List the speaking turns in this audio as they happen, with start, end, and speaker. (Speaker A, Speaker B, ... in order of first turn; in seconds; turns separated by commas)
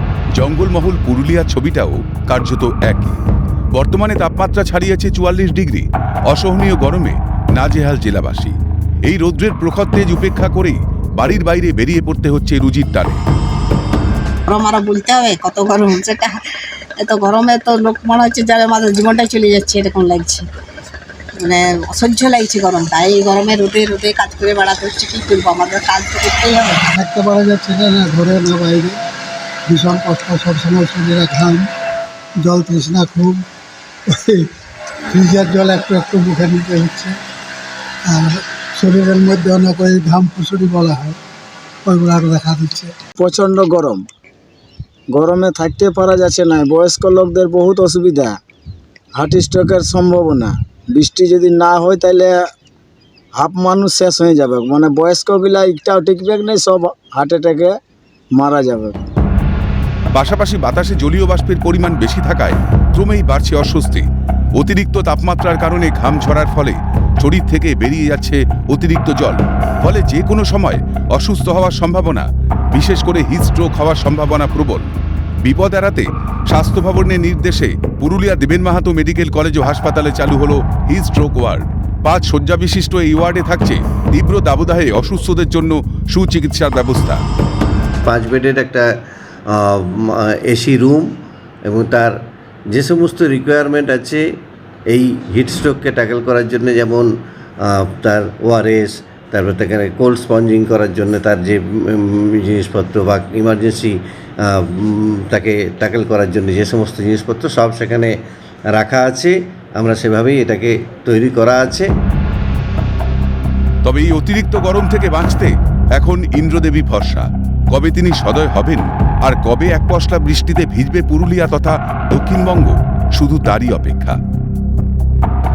Speaker A: 0.3-13.2, Speaker B: 14.5-20.5, Speaker B: 21.4-26.9, Speaker C: 26.8-29.0, Speaker C: 29.7-31.7, Speaker C: 32.4-33.4, Speaker C: 34.1-34.5, Speaker C: 35.1-37.2, Speaker C: 38.1-41.2, Speaker C: 41.9-43.0, Speaker D: 43.2-44.0, Speaker D: 45.1-48.4, Speaker D: 49.2-52.4, Speaker D: 53.4-57.7, Speaker D: 58.4-59.0, Speaker A: 60.1-64.0, Speaker A: 64.6-74.9, Speaker A: 75.4-87.2, Speaker E: 88.0-88.9, Speaker E: 89.5-91.1, Speaker E: 91.7-92.2, Speaker E: 92.7-94.2, Speaker E: 94.9-97.1, Speaker E: 97.6-108.1, Speaker E: 108.7-111.9, Speaker A: 113.8-124.2